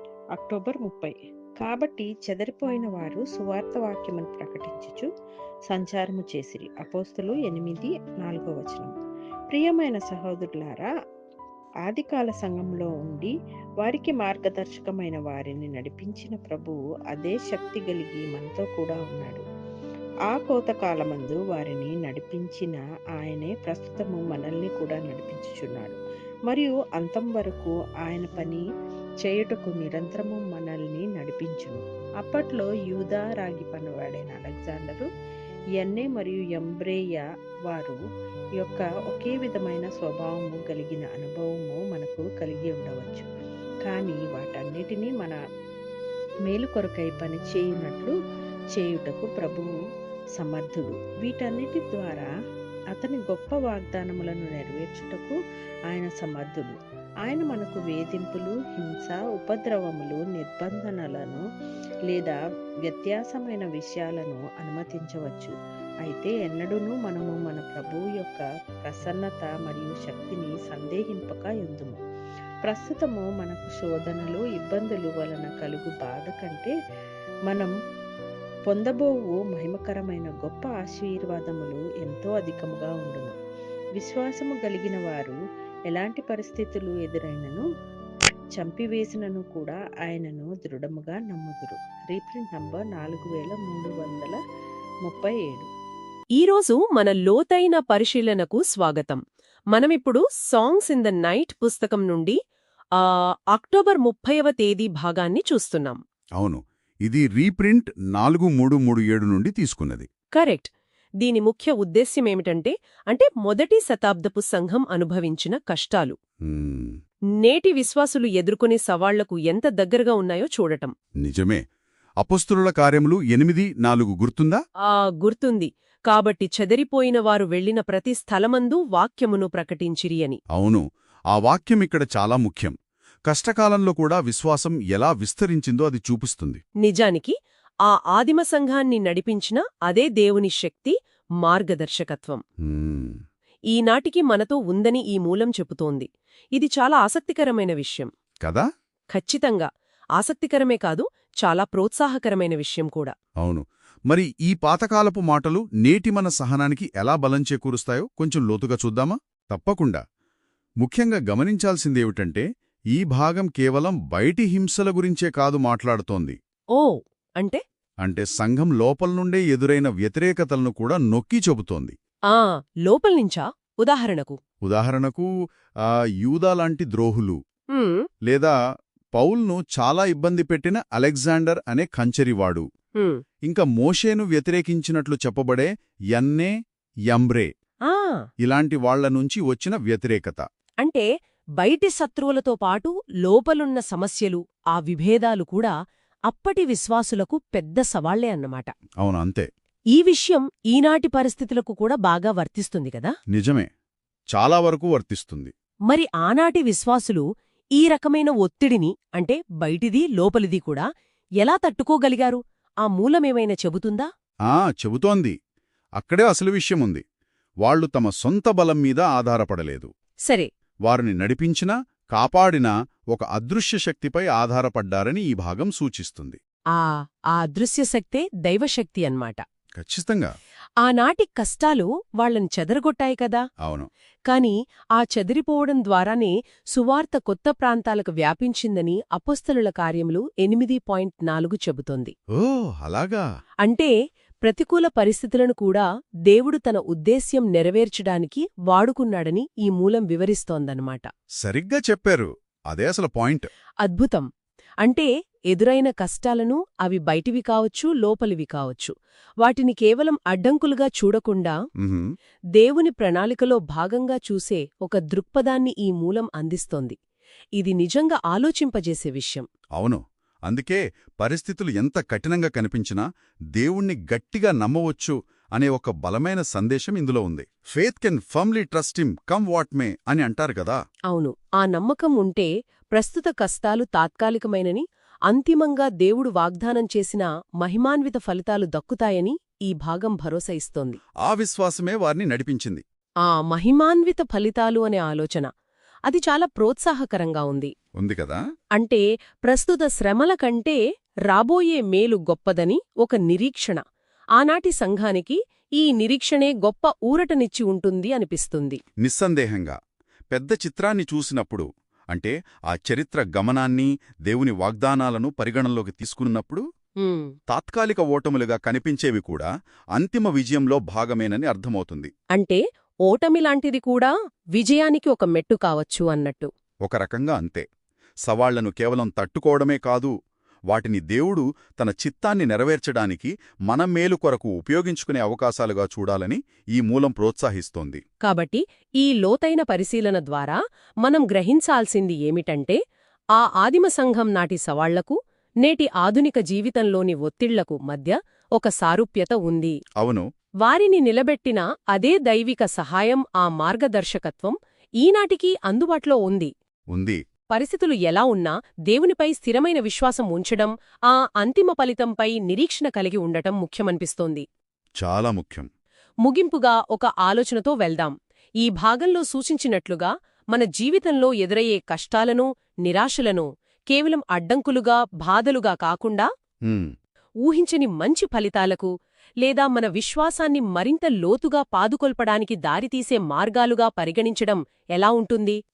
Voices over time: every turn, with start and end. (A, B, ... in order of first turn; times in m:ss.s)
0:00.4-0:05.1 A
0:05.7-0:08.9 A
0:09.5-0:10.9 A
0:11.8-0:19.4 A
0:20.3-0:28.6 A
0:29.2-0:35.1 A
0:35.8-0:38.0 A
0:38.6-0:43.3 A
0:43.8-0:45.4 A
0:46.5-0:48.1 A
0:48.8-0:49.7 A
0:50.4-0:52.3 A
0:52.9-0:55.4 A
0:55.9-1:01.4 A
1:02.1-1:02.4 A
1:02.9-1:05.5 A
1:06.0-1:12.0 A
1:12.6-1:16.7 A
1:17.5-1:17.7 A
1:18.7-1:23.3 A
1:24.0-1:25.4 A
1:25.9-1:27.6 A
1:28.6-1:34.4 A
1:35.0-1:35.7 A
1:36.4-1:39.2 B
1:39.7-1:42.4 B
1:43.0-1:46.0 B
1:46.4-1:50.1 C
1:50.4-1:50.7 B
1:51.2-1:56.1 B
1:56.4-1:57.0 C
1:57.4-2:00.9 B
2:01.2-2:01.6 C
2:02.2-2:04.6 C
2:04.9-2:10.4 B
2:10.5-2:12.7 C
2:13.3-2:16.6 C
2:16.8-2:17.3 B
2:17.8-2:22.4 B
2:22.6-2:23.2 C
2:23.7-2:28.1 B
2:29.1-2:33.1 B
2:33.4-2:40.0 C
2:40.8-2:46.4 C
2:46.7-2:47.6 B
2:48.0-2:51.9 C
2:52.3-2:54.4 B
2:54.6-2:55.3 C
2:55.8-2:57.4 C
2:57.7-2:58.1 B
2:58.2-2:58.5 C
2:59.1-3:02.6 C
3:03.4-3:06.5 C
3:07.1-3:07.5 C
3:07.9-3:08.2 B
3:08.4-3:10.4 C
3:11.6-3:15.7 B
3:16.3-3:18.7 B
3:19.0-3:19.5 C
3:19.9-3:23.1 B
3:23.3-3:23.7 C
3:24.3-3:25.5 C
3:25.9-3:27.2 B
3:27.8-3:30.8 B
3:31.4-3:34.1 B
3:34.5-3:35.3 C
3:36.0-3:37.0 C
3:37.6-3:39.9 C
3:40.8-3:46.4 C
3:46.7-3:49.4 B
3:49.8-3:50.3 C
3:50.8-3:53.4 B
3:53.6-3:53.9 C
3:54.3-4:02.1 B
4:02.4-4:03.2 C
4:03.6-4:03.9 B
4:04.4-4:11.0 B
4:11.4-4:13.5 C
4:13.8-4:14.2 B
4:14.8-4:21.6 B
4:21.8-4:22.1 C
4:22.6-4:27.0 B
4:27.6-4:29.4 B
4:29.8-4:33.0 C
4:33.6-4:40.8 C
4:41.1-4:51.0 B
4:51.2-4:52.8 C
4:53.2-4:55.5 B
4:56.1-4:57.7 B
4:58.0-4:58.4 C
4:58.8-5:03.8 B
5:04.4-5:08.8 B
5:09.0-5:09.8 C
5:10.3-5:16.6 C
5:17.0-5:17.3 B
5:17.5-5:22.1 C
5:22.3-5:26.5 B
5:26.8-5:27.6 C
5:28.2-5:30.1 C
5:30.7-5:38.0 C
5:38.2-5:42.8 B
5:43.4-5:49.8 B
5:50.0-5:50.2 C
5:50.6-5:56.5 B
5:56.9-5:57.2 C
5:57.5-6:04.4 B
6:05.0-6:05.7 C
6:06.2-6:16.3 B
6:16.7-6:16.9 C
6:17.4-6:18.9 B
6:19.4-6:25.6 B